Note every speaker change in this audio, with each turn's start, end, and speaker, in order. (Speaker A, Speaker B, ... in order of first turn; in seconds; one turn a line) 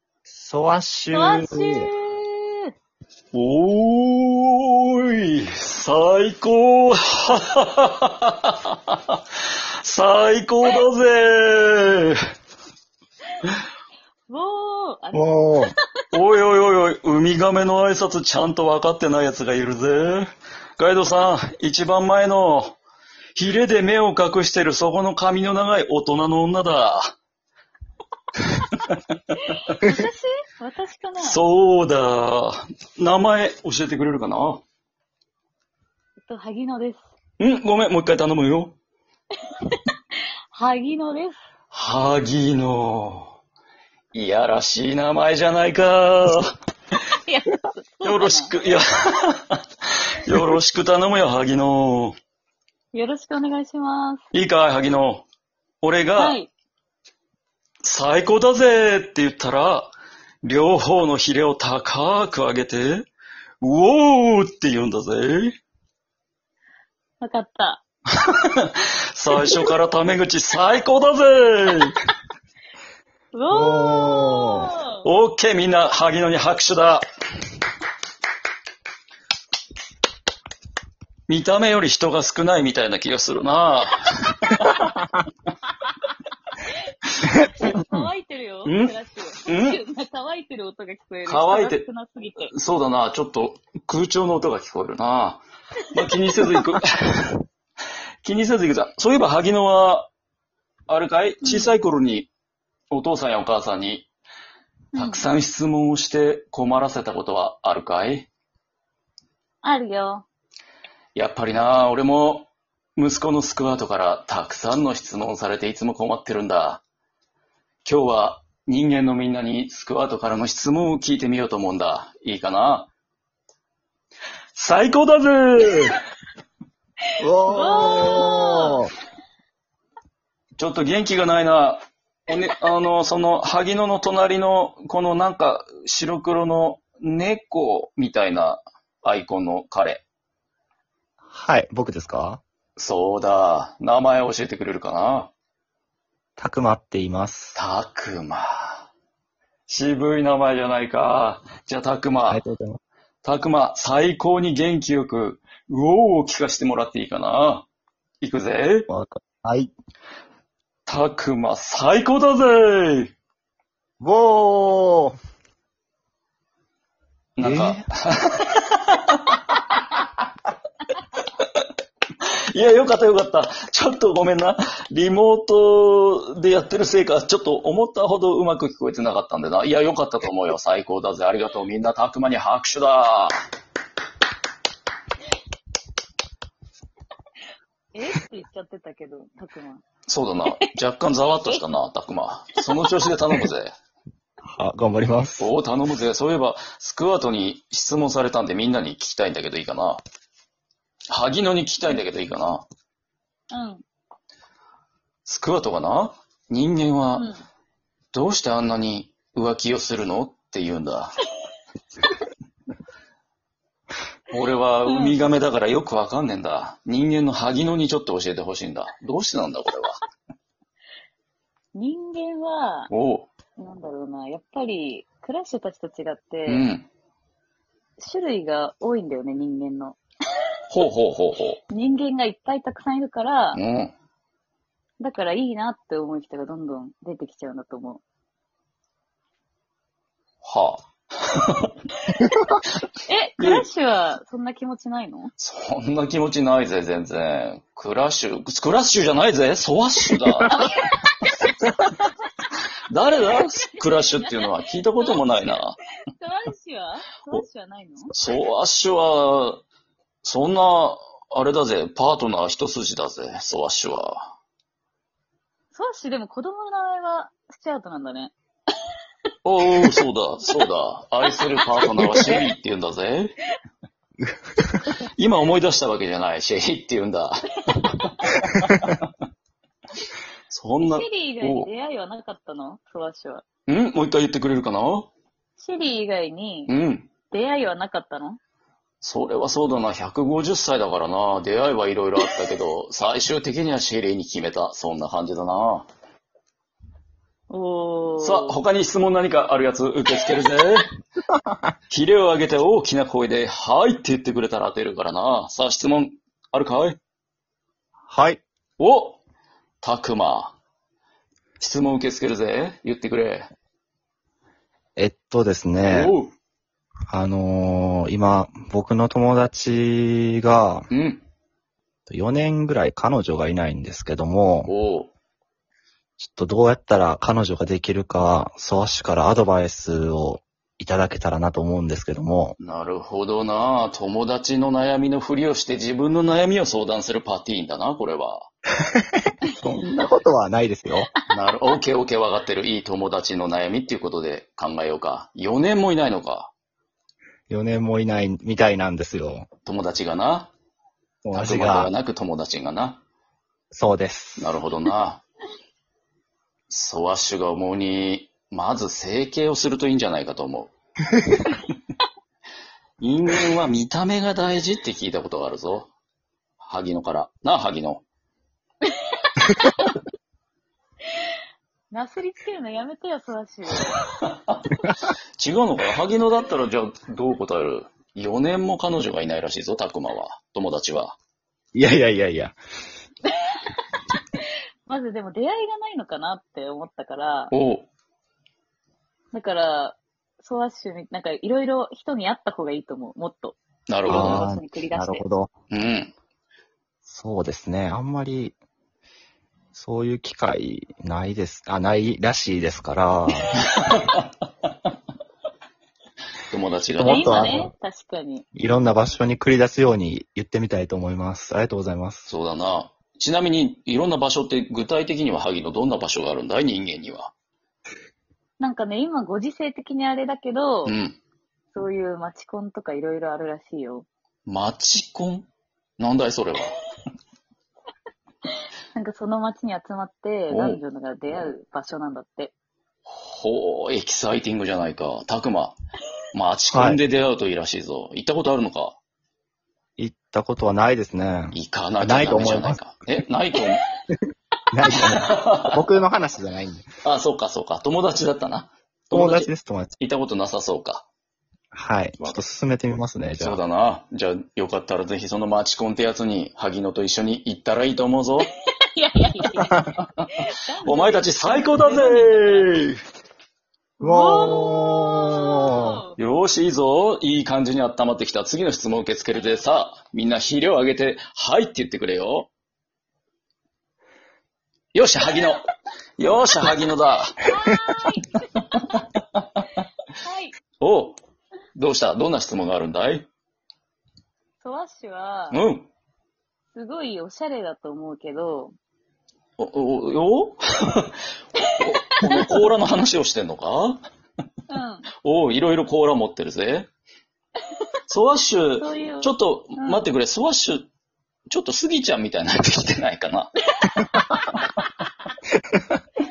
Speaker A: 0.3-1.9
Speaker B: 1.1-2.7
Speaker C: 3.3-9.2
Speaker C: 9.8-12.2
Speaker B: 14.3-15.7
Speaker A: 15.1-15.7
Speaker C: 16.1-22.8
Speaker C: 23.4-27.1
Speaker B: 29.5-31.4
Speaker C: 31.2-34.6
Speaker B: 36.2-37.1
Speaker C: 37.4-38.8
Speaker B: 40.5-41.4
Speaker C: 41.7-43.3
Speaker C: 44.1-46.5
Speaker B: 47.2-48.6
Speaker C: 48.0-49.6
Speaker C: 50.2-52.1
Speaker B: 52.9-54.2
Speaker C: 54.3-55.3
Speaker C: 55.8-56.4
Speaker B: 56.2-56.5
Speaker C: 57.8-63.1
Speaker C: 63.6-65.6
Speaker B: 67.2-67.8
Speaker C: 68.2-71.9
Speaker B: 73.3-75.1
Speaker A: 73.5-74.7
Speaker C: 75.0-77.1
Speaker C: 81.3-85.1
Speaker B: 87.3-92.5
Speaker A: 87.5-88.0
Speaker C: 88.7-88.9
Speaker C: 89.5-89.8
Speaker C: 91.2-91.8
Speaker C: 92.5-97.4
Speaker C: 98.2-100.1
Speaker C: 100.9-102.3
Speaker B: 101.4-101.7
Speaker C: 102.9-104.1
Speaker B: 104.9-105.3
Speaker C: 105.0-108.3
Speaker B: 109.6-110.3
Speaker C: 111.2-116.8
Speaker C: 117.8-122.9
Speaker C: 124.6-126.0
Speaker A: 127.2-128.9
Speaker B: 127.4-128.8
Speaker C: 130.6-140.0
Speaker A: 141.3-142.4
Speaker C: 142.8-145.3
Speaker A: 146.4-147.6
Speaker C: 147.5-148.9
Speaker C: 149.7-152.4
Speaker A: 152.3-152.8
Speaker C: 153.2-157.7
Speaker C: 158.2-158.9
Speaker A: 158.9-159.7
Speaker C: 160.9-163.1
Speaker A: 164.0-165.2
Speaker C: 167.4-169.8
Speaker A: 167.4-167.8
Speaker C: 172.5-183.3
Speaker B: 187.9-189.8
Speaker C: 190.1-193.7
Speaker A: 194.6-195.5
Speaker C: 195.4-200.0
Speaker C: 201.1-202.6
Speaker B: 203.5-203.8
Speaker C: 205.3-207.3
Speaker B: 207.2-207.4
Speaker C: 208.1-211.2
Speaker C: 214.3-220.0
Speaker B: 214.9-215.1
Speaker B: 221.7-222.9
Speaker C: 222.9-223.3
Speaker B: 223.6-226.7
Speaker C: 226.5-226.9
Speaker B: 228.0-230.0
Speaker C: 230.7-231.6
Speaker B: 231.7-233.6
Speaker C: 233.6-233.9
Speaker B: 235.0-238.0
Speaker C: 240.4-241.7
Speaker B: 243.0-245.3
Speaker C: 243.4-243.7
Speaker C: 245.4-250.7
Speaker B: 250.5-252.2
Speaker C: 252.9-255.8
Speaker B: 255.0-255.6
Speaker B: 256.2-258.1
Speaker C: 258.1-259.6
Speaker C: 260.2-264.3
Speaker B: 265.7-268.3
Speaker C: 269.4-273.4
Speaker B: 271.7-272.4
Speaker C: 275.2-279.0
Speaker B: 277.7-278.5
Speaker C: 280.5-281.7
Speaker B: 280.8-283.4
Speaker C: 283.7-285.1
Speaker B: 285.6-286.8
Speaker C: 286.7-287.1
Speaker B: 287.3-288.4
Speaker C: 289.0-295.9
Speaker B: 297.5-298.6
Speaker C: 298.2-300.9
Speaker C: 301.9-307.0
Speaker A: 308.1-308.4
Speaker C: 308.8-309.2
Speaker C: 309.8-310.6
Speaker C: 311.6-313.5
Speaker A: 315.0-316.1
Speaker C: 315.8-316.3
Speaker A: 317.1-320.9
Speaker C: 320.9-321.3
Speaker A: 322.1-324.7
Speaker C: 324.7-325.1
Speaker A: 326.2-332.6
Speaker C: 332.6-338.5
Speaker A: 338.9-341.1
Speaker C: 341.3-346.5
Speaker A: 347.5-349.5
Speaker C: 349.7-350.5
Speaker A: 351.2-351.9
Speaker C: 351.4-353.0
Speaker A: 353.7-354.5
Speaker C: 354.4-355.2
Speaker C: 356.7-360.7
Speaker C: 363.0-365.9
Speaker C: 366.6-368.0
Speaker B: 368.9-370.0
Speaker B: 371.9-373.9
Speaker C: 374.0-374.7
Speaker C: 375.4-381.2
Speaker A: 381.8-382.6
Speaker B: 384.1-387.5
Speaker C: 387.5-387.9
Speaker B: 389.3-395.2
Speaker C: 393.9-394.5
Speaker A: 394.1-395.5
Speaker C: 395.7-396.1
Speaker A: 397.1-398.6
Speaker A: 399.7-403.5
Speaker C: 403.6-404.2
Speaker C: 406.5-407.6
Speaker A: 407.0-407.7
Speaker B: 407.0-408.5
Speaker A: 408.6-412.3
Speaker C: 412.3-417.3
Speaker B: 418.6-421.0
Speaker C: 420.9-421.2
Speaker B: 421.7-424.1
Speaker C: 424.5-425.5
Speaker C: 426.0-426.8
Speaker B: 428.5-432.5
Speaker C: 430.5-430.8
Speaker C: 433.1-435.8
Speaker C: 436.3-439.0
Speaker A: 436.7-437.0
Speaker A: 440.0-443.0
Speaker C: 441.5-443.9
Speaker A: 444.7-446.9
Speaker C: 445.0-445.8
Speaker C: 447.0-451.1
Speaker A: 449.1-449.9
Speaker A: 451.7-453.6
Speaker C: 453.4-458.5
Speaker B: 458.9-462.8
Speaker C: 460.2-463.0
Speaker A: 464.0-466.0
Speaker B: 464.0-466.2
Speaker C: 466.2-472.5
Speaker C: 474.9-475.7
Speaker C: 476.2-477.4
Speaker B: 477.4-479.0
Speaker C: 479.4-479.6
Speaker B: 480.2-480.5
Speaker C: 480.8-481.2
Speaker C: 481.8-483.3
Speaker B: 484.6-485.6
Speaker C: 485.5-485.9
Speaker B: 486.7-488.8
Speaker C: 489.6-494.0
Speaker B: 491.6-492.5
Speaker B: 494.7-495.1
Speaker C: 495.2-496.9
Speaker C: 498.1-500.9
Speaker B: 498.8-500.1
Speaker C: 501.5-503.5
Speaker B: 503.7-504.9